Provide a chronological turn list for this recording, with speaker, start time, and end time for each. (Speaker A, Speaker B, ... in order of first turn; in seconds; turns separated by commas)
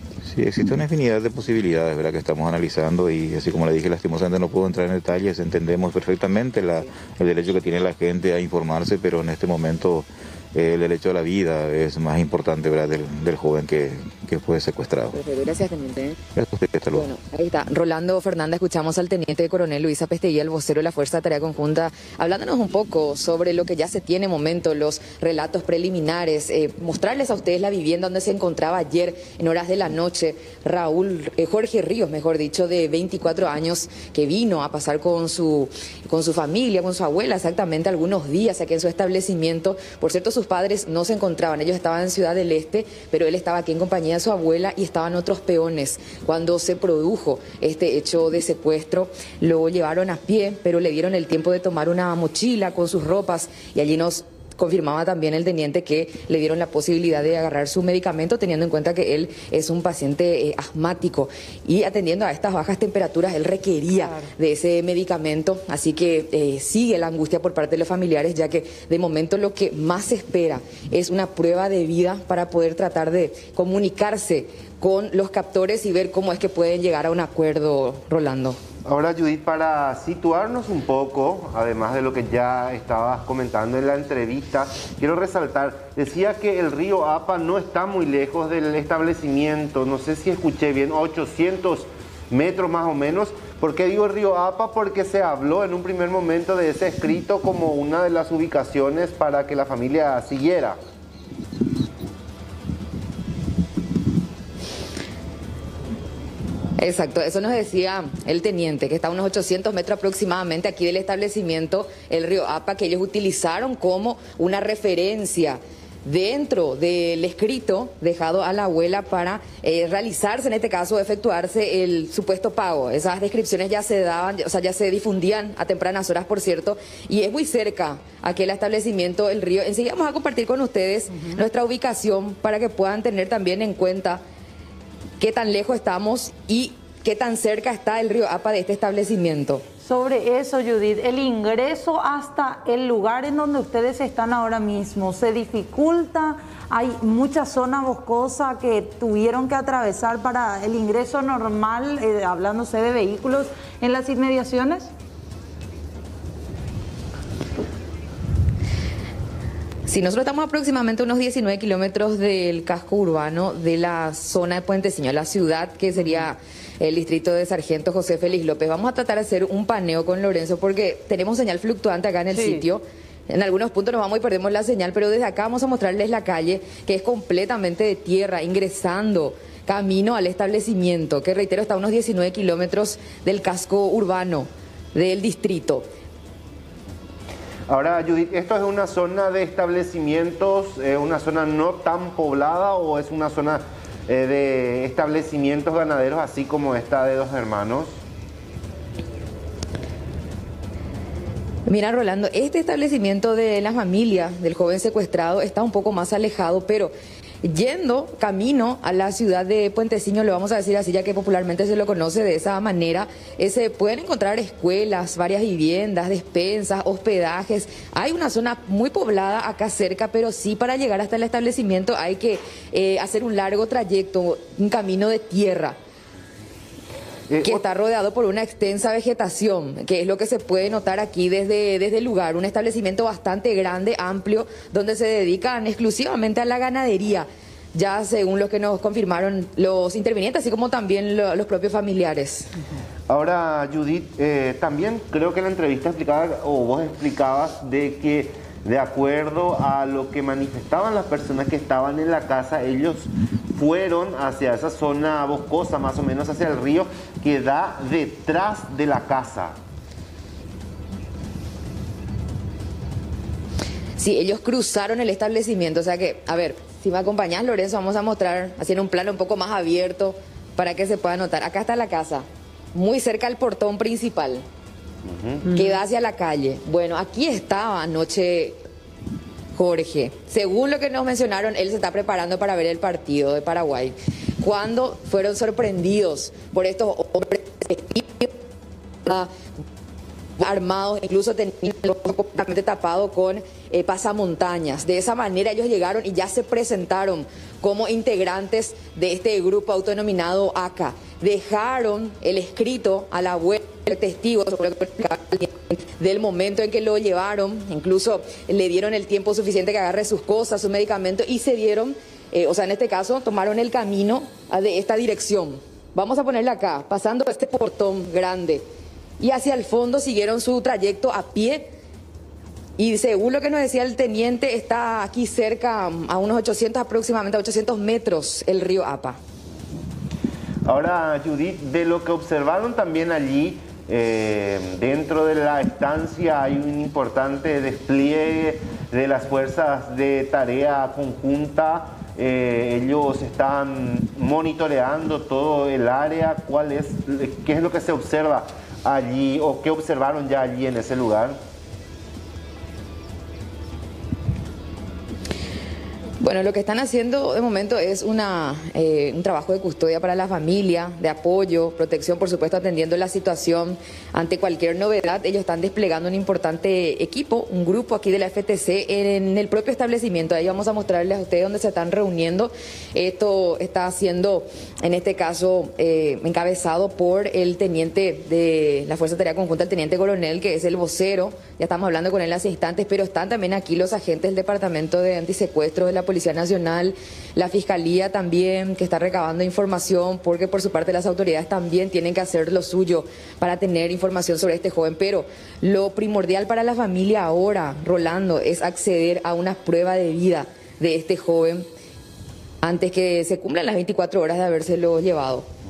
Speaker A: 0.2-15.2, Speaker B: 15.1-16.2, Speaker A: 16.4-17.1, Speaker B: 16.9-78.6, Speaker C: 78.9-100.8, Speaker B: 106.8-134.2, Speaker B: 135.2-139.6, Speaker D: 139.8-154.9, Speaker B: 159.9-185.9, Speaker D: 172.3-172.7, Speaker C: 187.7-198.0, Speaker B: 201.7-206.9, Speaker B: 207.4-225.8, Speaker C: 227.3-227.6, Speaker B: 227.4-242.5, Speaker C: 243.1-259.6, Speaker B: 264.0-274.4, Speaker C: 275.1-275.5, Speaker B: 275.5-278.6, Speaker B: 279.5-288.3, Speaker B: 289.1-289.3, Speaker B: 290.4-318.6, Speaker B: 319.2-321.7, Speaker B: 322.8-329.2, Speaker C: 330.6-351.4, Speaker B: 356.2-401.7, Speaker B: 402.6-405.5